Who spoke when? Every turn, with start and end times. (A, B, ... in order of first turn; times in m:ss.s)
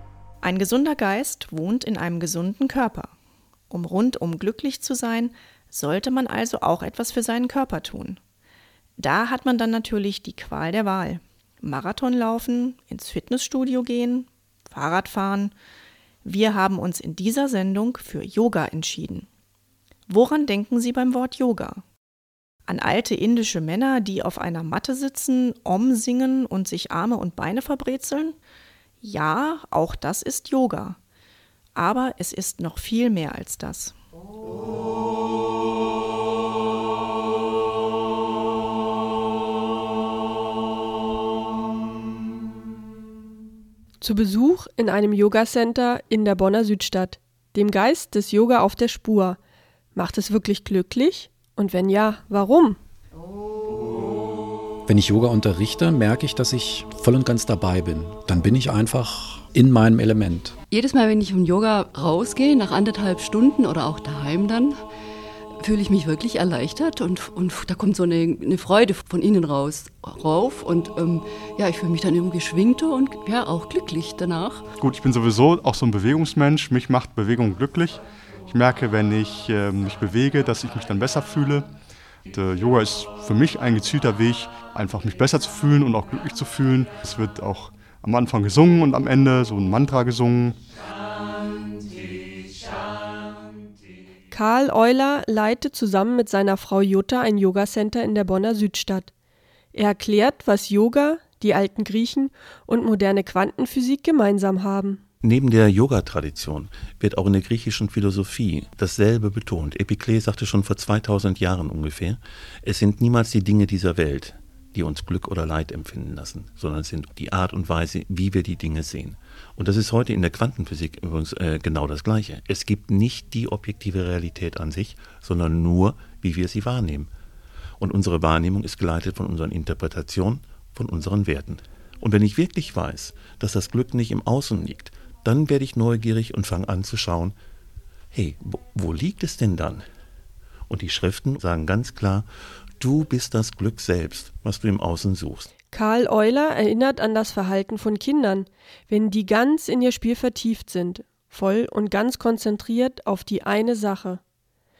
0:00.4-0:03.1 A
0:03.7-0:08.2 A
0:09.0-0:15.5 A
0:16.2-0:19.3 A
0:20.1-0:21.8 A
0:22.7-0:28.4 A
0:29.0-0:31.0 A
0:31.7-0:34.0 A
0:44.0-0:49.4 B
0:49.9-0:52.8 B
0:54.8-1:00.6 C
1:00.7-1:04.8 D
1:05.6-1:14.6 D
1:14.8-1:21.7 E
1:22.3-1:30.6 E
1:34.3-1:39.1 B
1:39.7-1:45.0 B
1:45.2-2:07.1 F
2:07.8-2:17.3 F
2:18.1-2:19.8 F
2:20.7-2:22.3 F
2:22.8-2:25.5 F
2:25.7-2:34.2 B